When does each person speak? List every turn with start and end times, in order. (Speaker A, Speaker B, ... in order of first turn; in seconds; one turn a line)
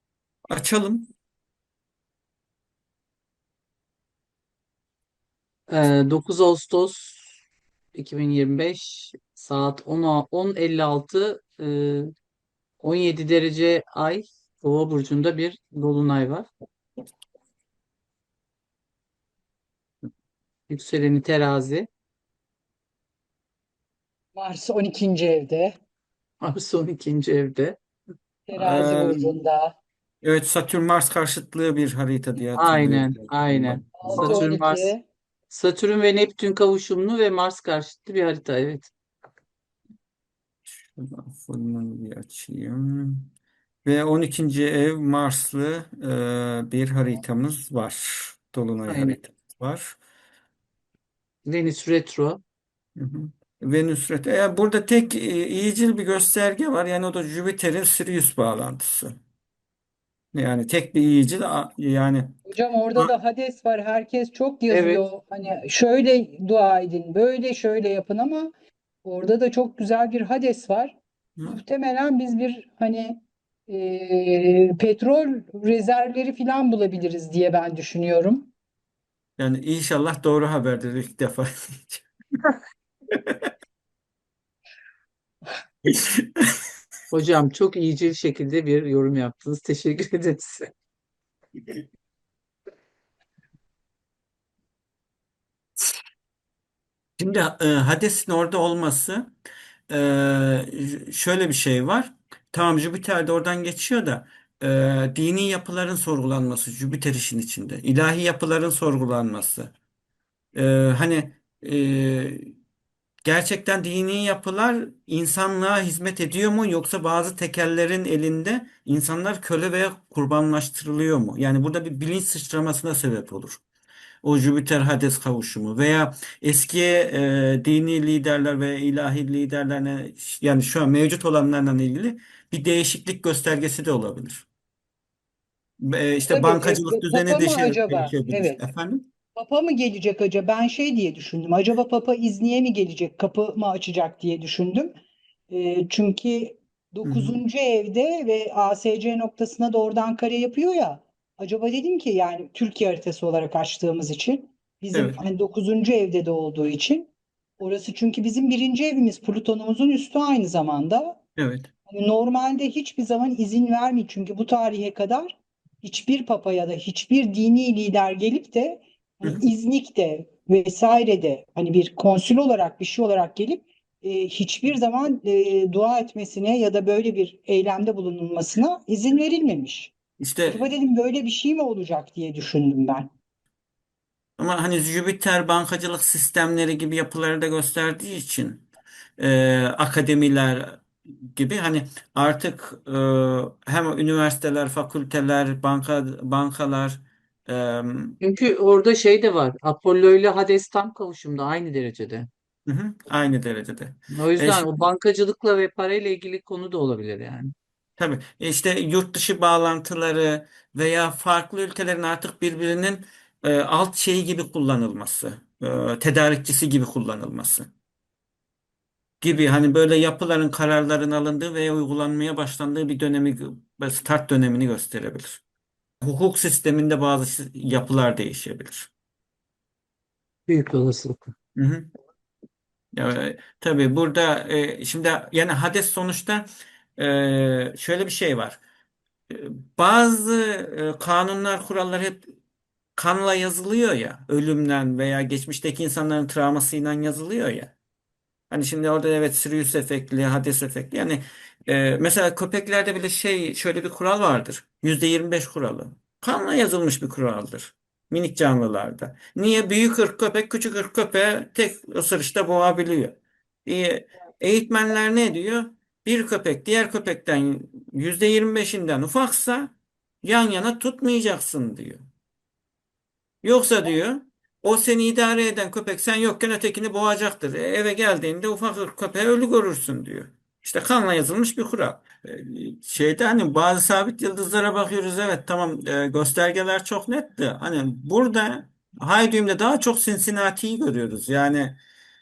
Speaker A: 0.5-1.1
Speaker B: 5.7-7.3
Speaker B: 7.9-12.1
Speaker B: 12.8-16.5
Speaker B: 20.7-21.9
Speaker C: 24.4-25.8
Speaker B: 26.4-27.8
Speaker C: 28.5-29.8
Speaker A: 28.5-29.3
Speaker A: 30.2-34.4
Speaker B: 32.5-34.9
Speaker C: 34.0-35.0
Speaker B: 35.5-38.9
Speaker A: 40.7-43.3
Speaker A: 43.8-50.0
Speaker B: 48.9-49.2
Speaker B: 51.5-52.4
Speaker A: 53.0-59.1
Speaker A: 60.3-62.4
Speaker C: 62.5-68.5
Speaker B: 64.7-65.0
Speaker C: 69.0-78.5
Speaker A: 79.4-82.0
Speaker A: 83.1-83.5
Speaker A: 85.8-86.5
Speaker B: 87.1-90.7
Speaker A: 97.2-99.3
Speaker A: 99.9-109.7
Speaker A: 110.5-112.5
Speaker A: 113.2-123.6
Speaker A: 124.2-134.5
Speaker A: 135.8-139.1
Speaker C: 136.3-138.6
Speaker C: 139.3-144.9
Speaker C: 145.5-161.2
Speaker A: 147.0-147.4
Speaker A: 154.9-155.2
Speaker A: 161.4-161.7
Speaker C: 161.9-179.9
Speaker A: 180.2-180.7
Speaker C: 180.4-183.1
Speaker A: 184.4-188.6
Speaker A: 189.2-198.2
Speaker B: 198.2-202.3
Speaker A: 202.7-204.8
Speaker B: 204.1-207.5
Speaker A: 208.0-217.7
Speaker A: 219.2-225.4
Speaker A: 226.0-228.9
Speaker B: 230.5-231.3
Speaker A: 231.6-231.9
Speaker A: 232.9-238.6
Speaker A: 239.3-242.2
Speaker A: 242.9-247.7
Speaker A: 248.5-272.0
Speaker A: 273.4-291.8